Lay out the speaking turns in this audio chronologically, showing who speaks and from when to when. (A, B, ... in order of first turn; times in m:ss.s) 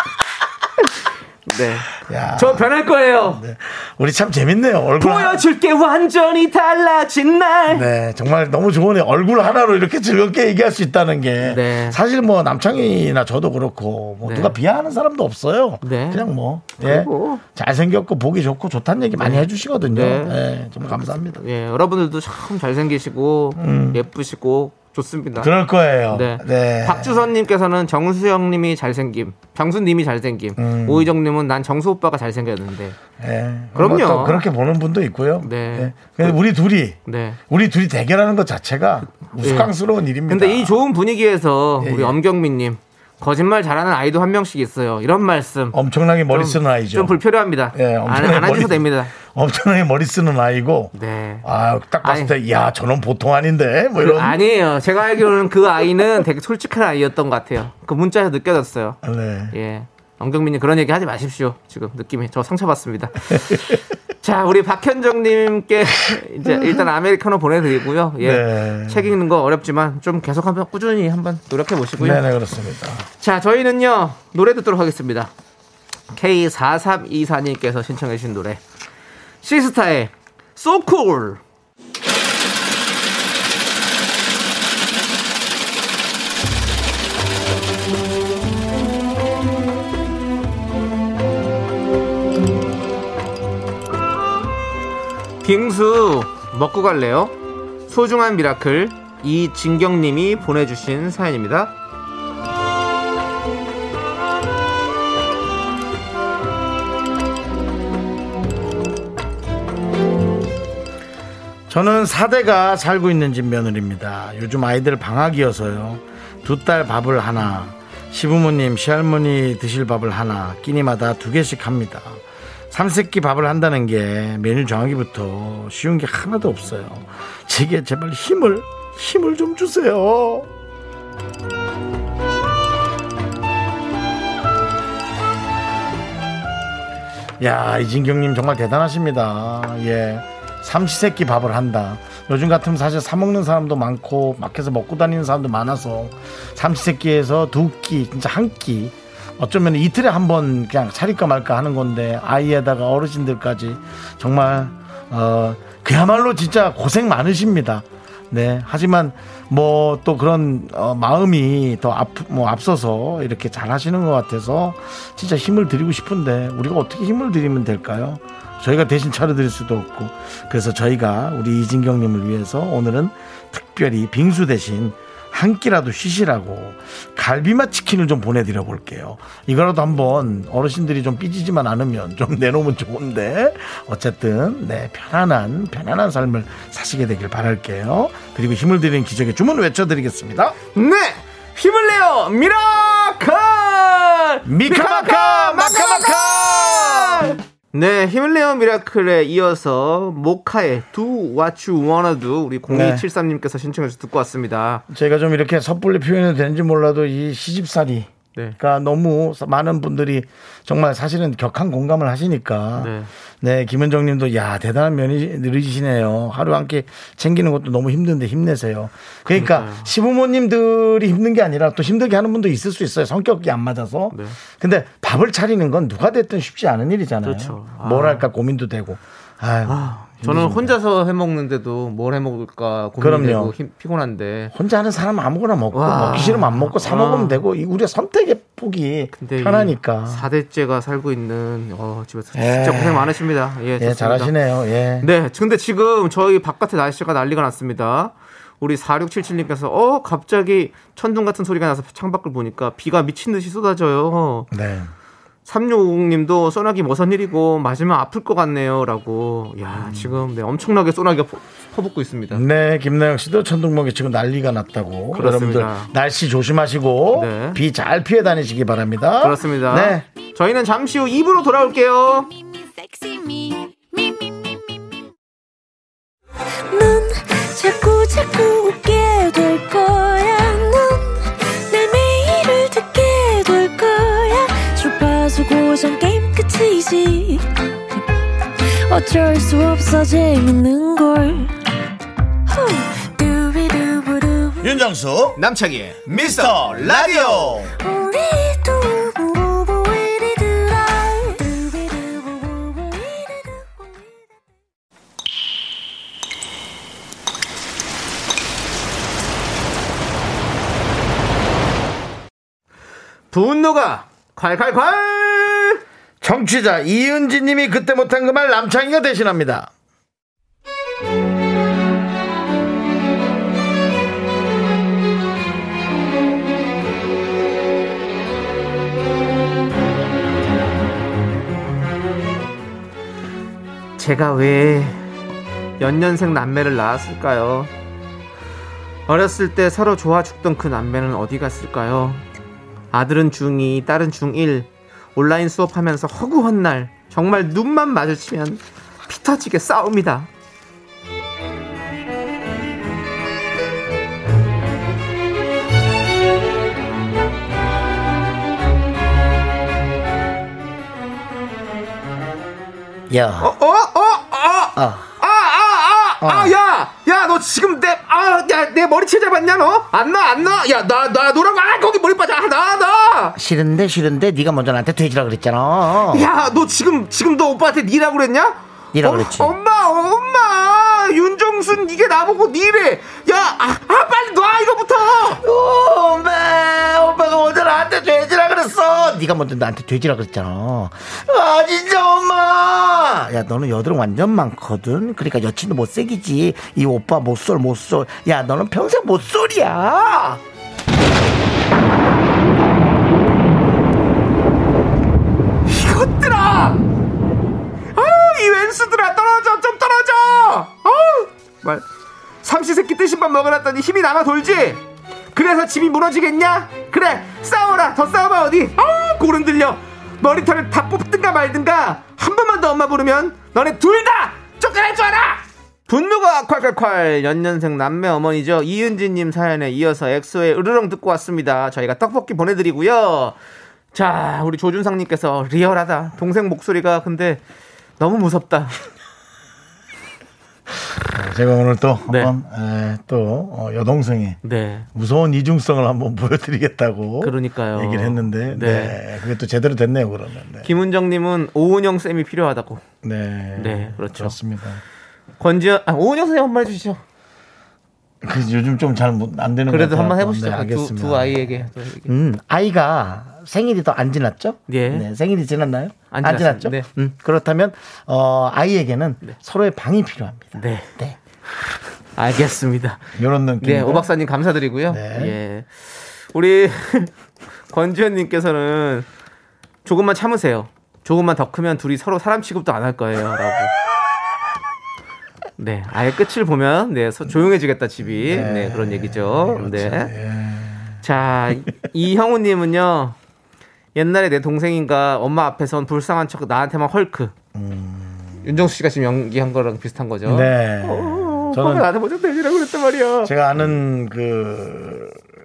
0:01.5-0:03.4 A
0:02.0-0:02.7 B
0:03.3-0:05.4 B
0:05.0-0:07.9 A
0:07.7-0:21.4 B
0:11.4-0:12.0 A
0:14.2-0:14.6 A
0:15.8-0:17.4 A
0:19.2-0:25.5 A
0:23.6-0:24.0 B
0:25.4-0:27.1 B
0:26.1-0:33.0 A
0:30.6-0:31.1 B
0:33.2-0:40.8 B
0:33.8-0:34.4 A
0:35.4-0:36.4 A
0:37.1-0:37.4 A
0:39.4-0:39.7 A
0:40.3-0:45.8 A
0:41.8-0:42.2 B
0:45.7-0:47.2 B
0:46.3-0:49.1 A
0:47.7-0:54.4 B
0:50.9-0:51.5 A
0:52.0-0:52.3 A
0:54.0-0:59.0 A
0:59.0-0:59.6 B
0:59.5-1:12.2 A
1:03.3-1:03.8 B
1:06.5-1:06.8 B
1:08.2-1:09.1 B
1:12.0-1:13.1 B
1:13.2-1:15.3 A
1:16.1-1:18.6 A
1:19.4-1:21.4 A
1:35.4-1:37.4 A
1:37.9-1:41.8 A
1:51.7-2:10.5 B
2:17.4-3:10.6 B
3:10.8-3:24.8 A
3:14.5-3:17.4 B
3:22.7-3:23.0 B
3:24.9-3:50.8 B
3:32.8-3:33.1 A
3:39.3-3:39.9 A
3:44.1-3:44.4 A
3:47.2-3:48.3 A
3:49.6-3:54.5 A
3:53.0-3:53.5 B
3:54.5-4:00.3 B
3:55.7-3:57.4 A
3:59.2-4:04.3 A
4:02.4-4:03.2 B
4:03.8-4:05.1 B
4:05.0-4:14.5 A
4:14.5-4:14.9 B
4:15.5-4:22.4 A
4:19.7-4:20.2 B
4:22.3-4:30.1 B
4:25.1-4:25.9 A
4:27.1-4:27.6 A
4:29.2-4:32.3 A
4:32.6-4:34.8 C
4:36.7-4:48.0 C
4:48.7-4:51.6 C
4:52.5-4:54.8 C
4:54.6-4:55.4 B
4:55.4-4:57.7 A
4:56.1-4:57.7 B
4:57.8-5:04.0 C
5:13.3-5:15.8 A
5:16.2-5:19.7 B
5:34.0-5:35.0 A
5:35.8-5:37.7 A
5:39.1-5:42.2 A
5:42.9-5:50.3 A
6:03.1-6:03.5 B
6:03.4-6:13.4 A
6:04.8-6:05.1 B
6:06.2-6:06.6 B
6:13.4-6:16.3 B
6:16.1-6:25.4 A
6:18.9-6:19.5 B
6:25.3-6:40.4 B
6:45.7-6:46.8 A
6:48.0-6:51.8 A
6:52.4-6:54.8 A
6:55.3-7:13.4 A
7:13.9-7:17.4 A
7:18.0-7:18.8 A
7:21.0-7:24.4 B
7:22.1-7:22.3 A
7:24.4-7:24.9 A
7:25.0-7:30.7 B
7:27.2-7:29.0 A
7:30.6-7:32.8 A
7:33.0-7:34.8 B
7:33.6-7:34.4 A
7:35.4-7:37.0 A
7:38.2-7:51.2 B
7:39.7-7:42.1 A
7:44.7-7:45.1 A
7:46.1-7:46.9 A
7:50.6-7:51.0 A
7:52.2-7:57.1 A
7:53.2-7:54.1 B
7:54.9-7:55.4 B
7:57.7-7:59.1 A
7:59.8-8:03.7 A
8:05.6-8:10.1 A
8:08.2-8:11.0 B
8:11.0-8:13.2 A
8:14.0-8:17.3 A
8:17.6-8:18.5 B
8:18.4-8:23.7 A
8:20.2-8:21.9 B
8:23.2-8:25.2 B